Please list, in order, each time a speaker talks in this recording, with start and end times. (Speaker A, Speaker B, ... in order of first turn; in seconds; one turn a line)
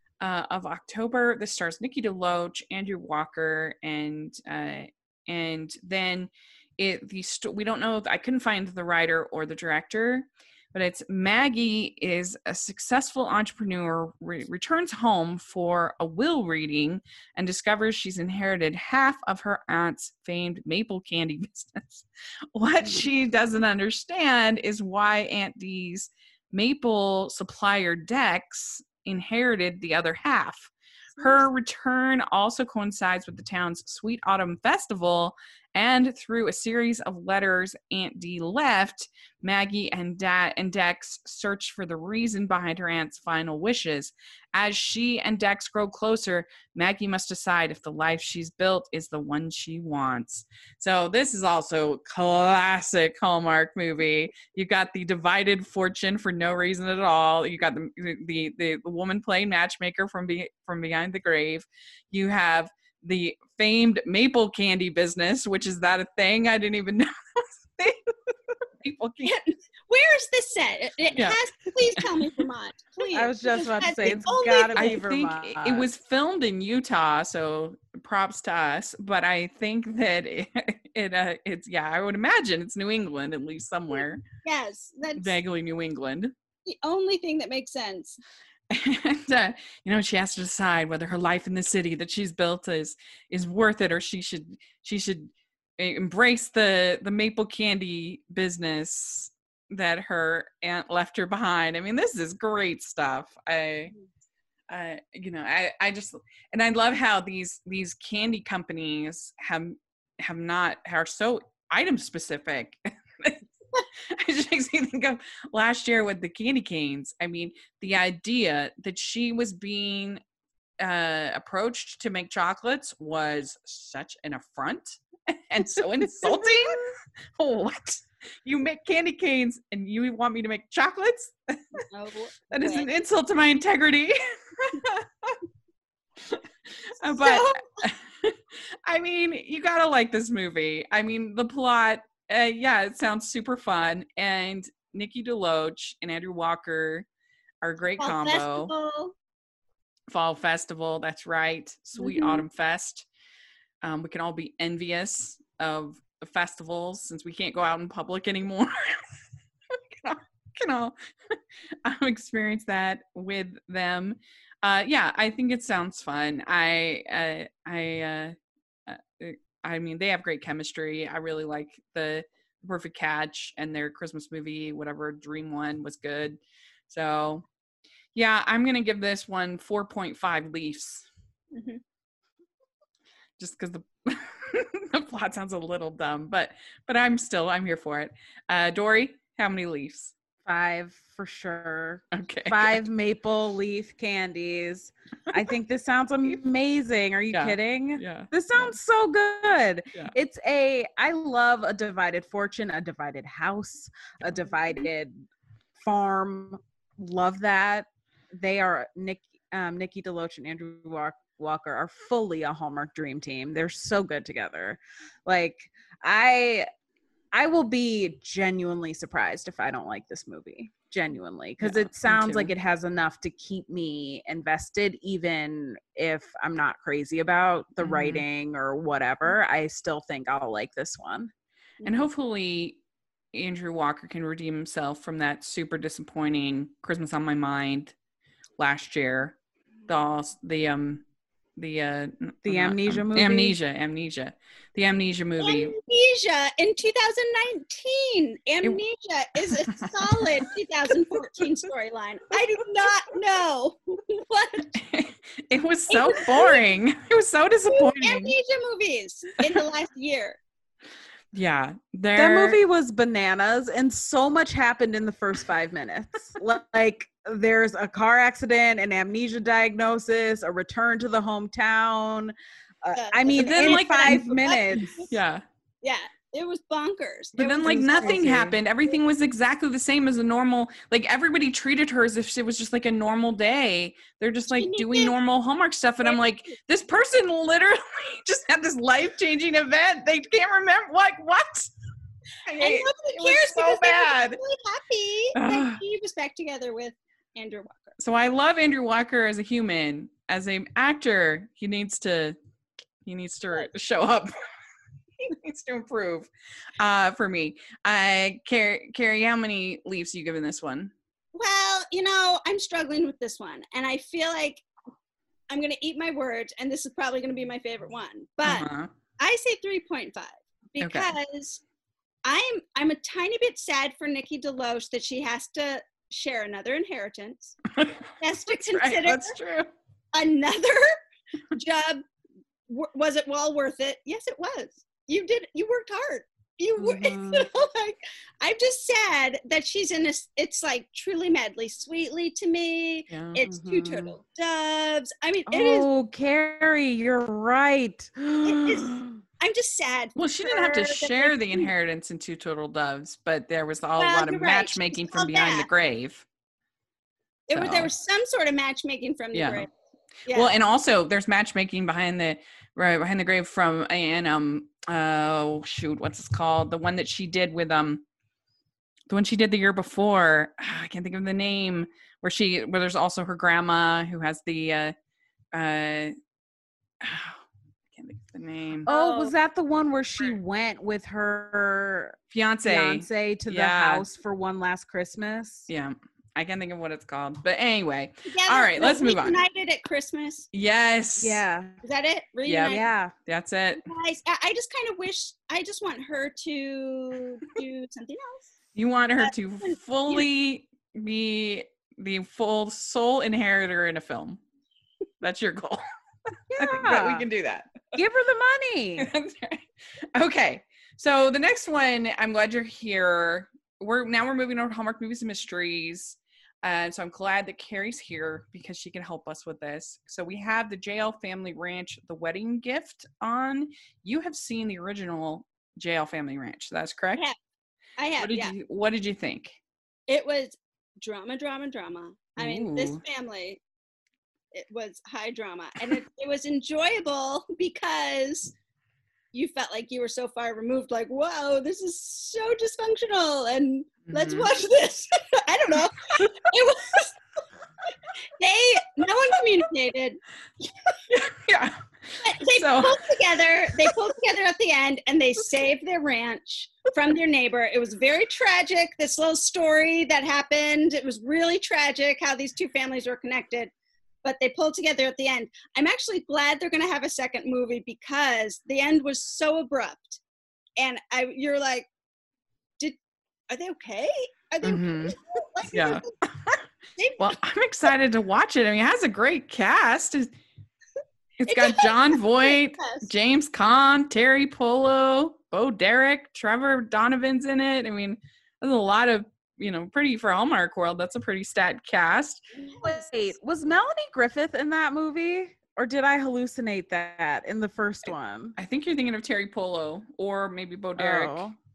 Speaker A: 0.2-68.1
Speaker A: 68.8-69.3
Speaker B: 69.2-75.0
Speaker C: 73.1-75.9
Speaker A: 74.8-84.2
Speaker B: 84.4-85.4
Speaker A: 85.2-86.3
Speaker B: 86.7-88.2
Speaker A: 88.7-103.9
Speaker A: 104.7-113.5
Speaker A: 114.0-120.2
Speaker A: 120.8-126.8
Speaker C: 125.8-126.9
Speaker A: 127.3-131.8
Speaker B: 131.9-132.9
Speaker A: 132.5-135.4
Speaker A: 136.3-147.1
Speaker B: 137.2-137.8
Speaker A: 147.6-148.7
Speaker B: 148.0-149.1
Speaker A: 150.1-153.1
Speaker B: 152.0-152.4
Speaker A: 153.8-159.0
Speaker A: 159.7-168.3
Speaker A: 168.9-177.4
Speaker A: 178.1-181.1
Speaker B: 181.5-181.8
Speaker A: 183.4-190.1
Speaker C: 190.4-205.1
Speaker A: 192.1-192.8
Speaker A: 197.3-198.7
Speaker C: 205.8-216.7
Speaker C: 217.3-231.3
Speaker A: 221.6-222.5
Speaker A: 227.8-228.2
Speaker B: 231.8-232.1
Speaker A: 231.8-232.8
Speaker A: 233.3-237.9
Speaker A: 238.6-241.0
Speaker A: 241.6-245.7
Speaker C: 242.4-243.6
Speaker B: 245.4-254.8
Speaker A: 249.5-250.2
Speaker A: 254.8-258.4
Speaker B: 255.9-256.6
Speaker B: 257.7-260.4
Speaker A: 261.3-262.6
Speaker C: 262.1-274.9
Speaker B: 272.9-275.1
Speaker A: 273.4-275.4
Speaker B: 275.8-278.2
Speaker A: 277.4-291.7
Speaker C: 277.4-278.6
Speaker B: 284.5-285.1
Speaker B: 292.4-297.9
Speaker A: 292.5-294.4
Speaker A: 295.3-295.8
Speaker A: 298.0-302.4
Speaker A: 303.0-304.3
Speaker A: 305.2-310.9
Speaker B: 311.3-314.6
Speaker B: 315.5-321.6
Speaker A: 318.4-318.9
Speaker A: 320.8-321.1
Speaker B: 322.2-327.6
Speaker A: 327.7-329.7
Speaker B: 328.2-329.3
Speaker B: 330.1-330.9
Speaker B: 331.5-332.0
Speaker B: 332.7-345.9
Speaker C: 336.8-337.5
Speaker A: 343.1-343.4
Speaker C: 343.4-344.1
Speaker C: 345.5-348.9
Speaker B: 348.4-348.9
Speaker B: 349.4-351.7
Speaker A: 350.1-356.2
Speaker B: 354.0-355.7
Speaker B: 357.5-359.7
Speaker A: 357.5-357.9
Speaker A: 359.3-359.6
Speaker A: 360.3-368.0
Speaker A: 369.1-374.9
Speaker A: 375.5-376.1
Speaker A: 377.0-378.9
Speaker B: 378.9-379.3
Speaker C: 378.9-385.7
Speaker A: 382.3-384.0
Speaker A: 385.7-389.4
Speaker B: 388.2-390.5
Speaker A: 390.5-391.4
Speaker C: 391.2-391.8
Speaker B: 391.8-392.9
Speaker A: 392.4-393.8
Speaker C: 392.7-393.1
Speaker B: 393.8-398.5
Speaker A: 398.7-404.4
Speaker B: 399.2-400.2
Speaker A: 405.2-405.8
Speaker C: 406.5-407.3
Speaker A: 406.5-407.9
Speaker C: 407.9-409.1
Speaker A: 409.0-427.2
Speaker B: 428.0-428.5
Speaker A: 428.2-429.6
Speaker B: 430.1-433.6
Speaker A: 432.4-433.0
Speaker B: 434.5-438.5
Speaker B: 439.3-447.1
Speaker A: 444.1-444.5
Speaker B: 448.4-450.2
Speaker A: 451.1-453.0
Speaker B: 452.2-463.7
Speaker B: 464.2-470.2
Speaker B: 470.8-471.9
Speaker B: 473.5-476.0
Speaker A: 474.6-475.1
Speaker A: 475.7-476.6
Speaker B: 477.0-477.3
Speaker A: 477.2-480.3
Speaker A: 481.4-492.4
Speaker B: 481.5-483.1
Speaker B: 492.5-493.3
Speaker C: 492.8-498.6
Speaker A: 498.6-501.5
Speaker C: 501.0-501.5